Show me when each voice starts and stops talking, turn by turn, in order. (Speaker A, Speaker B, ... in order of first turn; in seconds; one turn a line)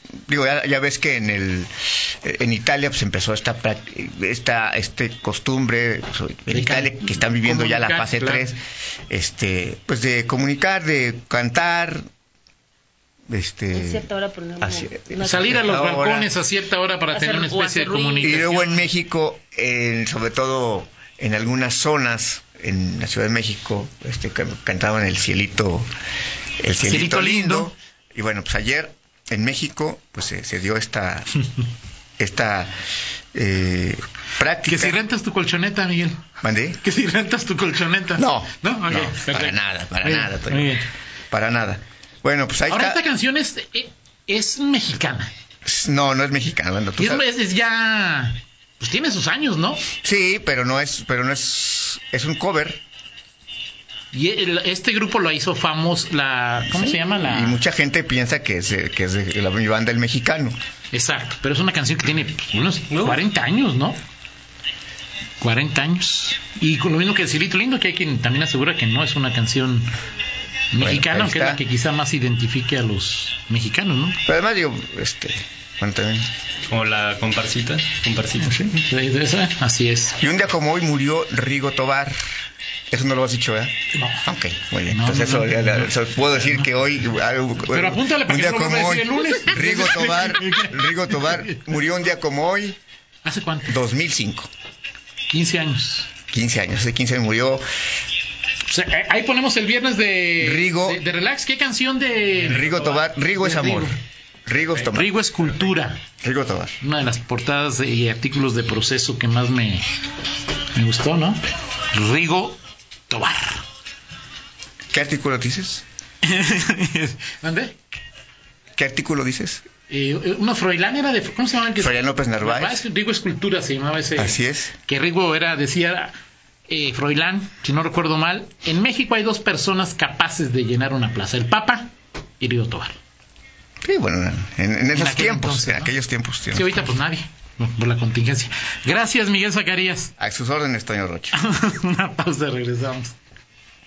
Speaker A: 0.3-12.0
Speaker B: 6.5-8.5
Speaker A: 13.3-14.1
Speaker C: 13.7-15.6
Speaker A: 14.6-16.3
Speaker B: 15.2-18.8
Speaker C: 17.1-18.5
Speaker A: 18.2-25.9
Speaker A: 26.6-31.3
Speaker B: 26.8-27.7
Speaker A: 32.2-32.7
Speaker A: 33.3-35.0
Speaker B: 34.7-36.2
Speaker A: 36.4-36.8
Speaker B: 36.8-40.9
Speaker A: 38.2-43.0
Speaker B: 42.7-45.3
Speaker A: 45.6-47.2
Speaker B: 47.0-49.8
Speaker A: 50.0-52.8
Speaker B: 54.1-57.6
Speaker A: 56.7-60.5
Speaker B: 60.9-64.0
Speaker D: 62.9-63.2
Speaker B: 65.4-69.9
Speaker B: 70.7-74.2
Speaker A: 70.8-71.6
Speaker A: 74.3-76.3
Speaker D: 76.7-78.7
Speaker B: 78.4-80.2
Speaker A: 80.2-82.2
Speaker A: 82.9-92.8
Speaker B: 84.0-84.2
Speaker B: 84.9-86.7
Speaker B: 87.7-91.5
Speaker B: 93.2-93.8
Speaker A: 93.7-94.5
Speaker B: 95.3-96.1
Speaker A: 96.3-97.6
Speaker B: 98.7-104.0
Speaker A: 100.4-101.0
Speaker A: 102.4-103.9
Speaker A: 104.5-105.1
Speaker B: 104.7-106.0
Speaker A: 106.2-106.8
Speaker B: 106.8-109.9
Speaker B: 110.7-113.6
Speaker A: 114.9-115.8
Speaker B: 116.2-117.8
Speaker A: 118.8-119.7
Speaker B: 119.9-126.1
Speaker A: 121.8-122.8
Speaker A: 124.2-124.8
Speaker B: 126.7-133.0
Speaker A: 133.8-136.7
Speaker B: 134.9-135.9
Speaker B: 136.5-140.1
Speaker A: 140.2-141.4
Speaker B: 141.3-143.2